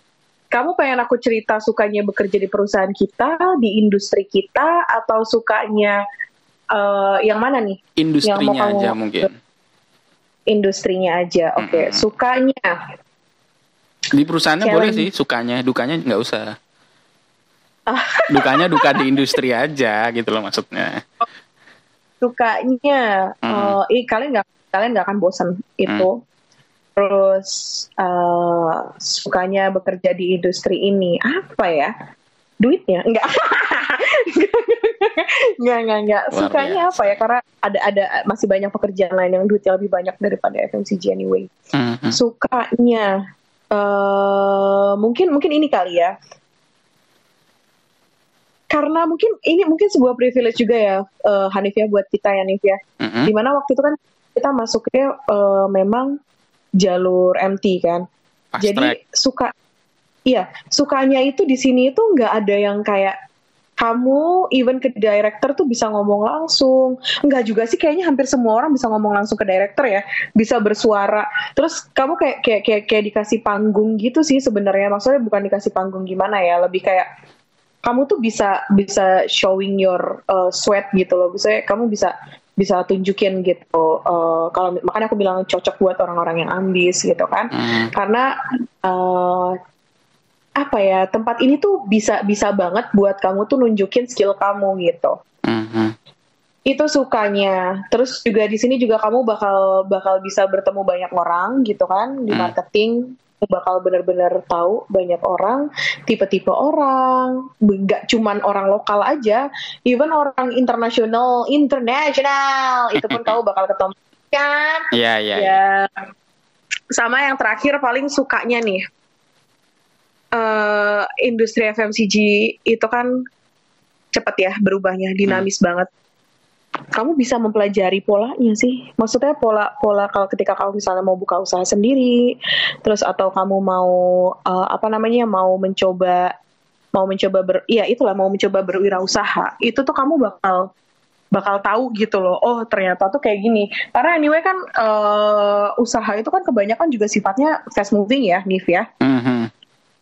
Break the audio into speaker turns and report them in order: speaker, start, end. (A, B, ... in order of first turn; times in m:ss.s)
0:00.5-0:06.0 A
0:06.7-0:09.3 A
0:08.0-0:09.3 B
0:10.5-0:12.7 A
0:11.6-0:12.0 B
0:14.1-0:16.5 B
0:14.6-0:15.1 A
0:17.9-0:19.3 A
0:18.3-0:21.0 B
0:22.2-0:26.1 A
0:23.5-0:23.8 B
0:27.0-0:31.9 A
0:32.6-0:41.5 A
0:36.3-0:37.2 B
0:41.7-0:42.2 B
0:42.1-0:43.1 A
0:43.7-0:46.1 A
0:48.7-0:56.1 A
0:53.0-0:53.3 B
0:56.8-0:58.0 A
0:58.5-0:59.0 B
0:58.6-0:59.5 A
1:00.3-1:03.2 A
1:03.8-1:17.1 A
1:17.8-1:28.2 A
1:27.5-1:27.9 B
1:28.8-1:29.6 A
1:30.6-1:35.2 A
1:35.5-1:35.9 B
1:36.7-1:56.0 A
1:53.0-1:53.4 B
1:54.9-1:55.6 B
1:57.0-1:58.8 A
2:00.4-2:03.1 A
2:04.1-2:05.9 A
2:07.0-2:12.2 A
2:12.8-2:16.3 A
2:17.0-2:20.7 A
2:21.3-2:28.9 A
2:29.0-2:29.5 B